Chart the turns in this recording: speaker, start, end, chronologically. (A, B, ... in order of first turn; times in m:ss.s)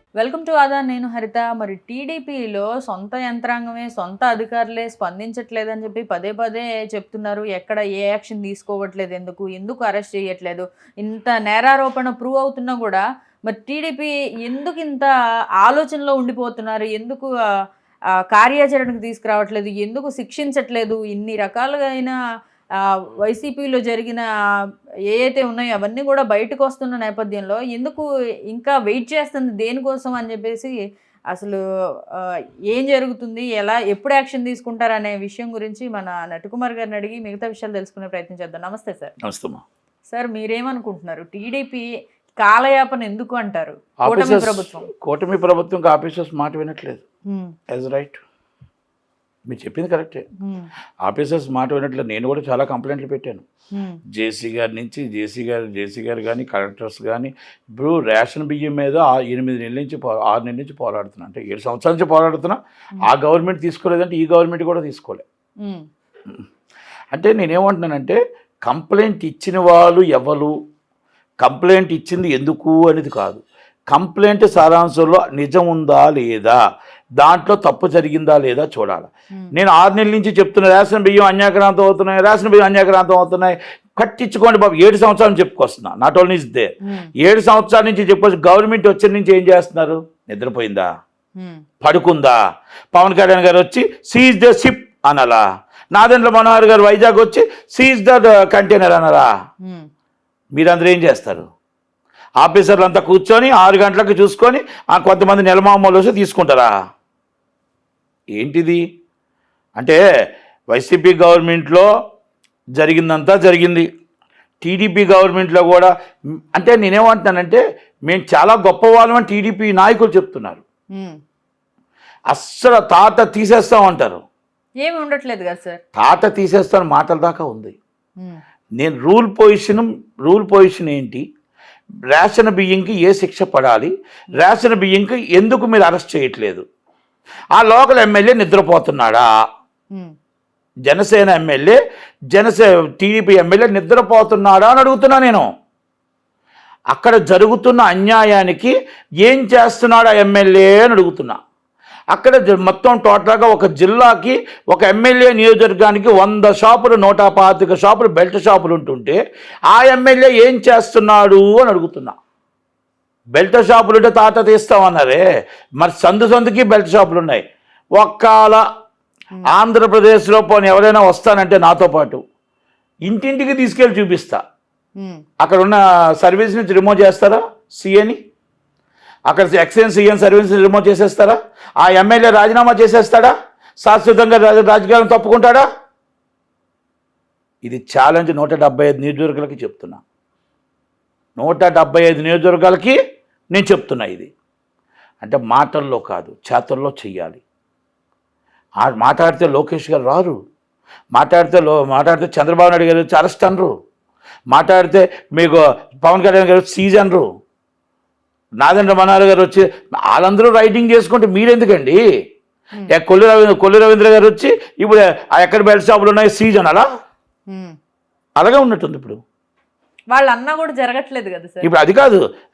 0:00.2-0:15.1 A
0:15.6-0:17.3 A
0:18.3-0:22.2 A
0:22.8-0:24.2 A
0:25.1-0:30.7 A
0:31.3-0:31.6 A
0:32.1-0:39.2 A
0:39.2-0:39.6 B
0:40.1-0:41.8 A
0:42.4-0:44.9 A
0:44.0-0:47.0 B
0:47.3-0:47.6 A
0:47.7-0:48.2 B
0:49.5-0:50.2 B
0:50.4-0:50.7 A
0:51.0-0:53.4 B
0:53.7-0:54.0 A
0:54.1-1:05.2 B
1:05.6-1:05.9 A
1:07.1-1:10.5 B
1:11.4-1:16.6 B
1:17.2-1:30.8 B
1:26.8-1:27.1 A
1:31.4-1:31.6 A
1:31.8-1:32.3 B
1:32.9-1:39.3 B
1:40.5-1:41.4 B
1:42.4-1:46.7 B
1:48.4-1:48.8 B
1:50.7-1:51.9 B
1:52.8-1:53.9 B
1:54.6-1:55.9 B
1:56.5-2:00.6 B
2:02.3-2:04.2 B
2:04.8-2:05.8 A
2:06.0-2:07.8 B
2:08.8-2:11.2 B
2:12.1-2:16.6 B
2:17.5-2:19.2 B
2:20.9-2:21.8 B
2:22.3-2:25.4 B
2:26.9-2:28.7 B
2:29.2-2:31.4 B
2:32.1-2:39.2 B
2:39.7-2:42.1 B
2:43.3-2:45.2 B
2:45.8-2:47.4 B
2:47.9-2:48.6 B
2:49.5-2:52.2 B
2:53.1-2:54.4 B
2:55.0-2:55.2 A
2:55.4-2:58.2 B
2:59.3-3:05.6 B
3:07.6-3:10.0 B
3:11.4-3:13.0 B
3:13.5-3:14.3 B
3:15.2-3:17.4 B
3:18.8-3:20.4 B
3:21.1-3:23.7 B
3:24.5-3:27.2 B
3:28.6-3:32.0 B
3:32.9-3:36.8 B
3:37.5-3:37.8 A
3:38.4-3:39.2 B
3:40.1-3:41.7 A
3:41.6-3:42.2 B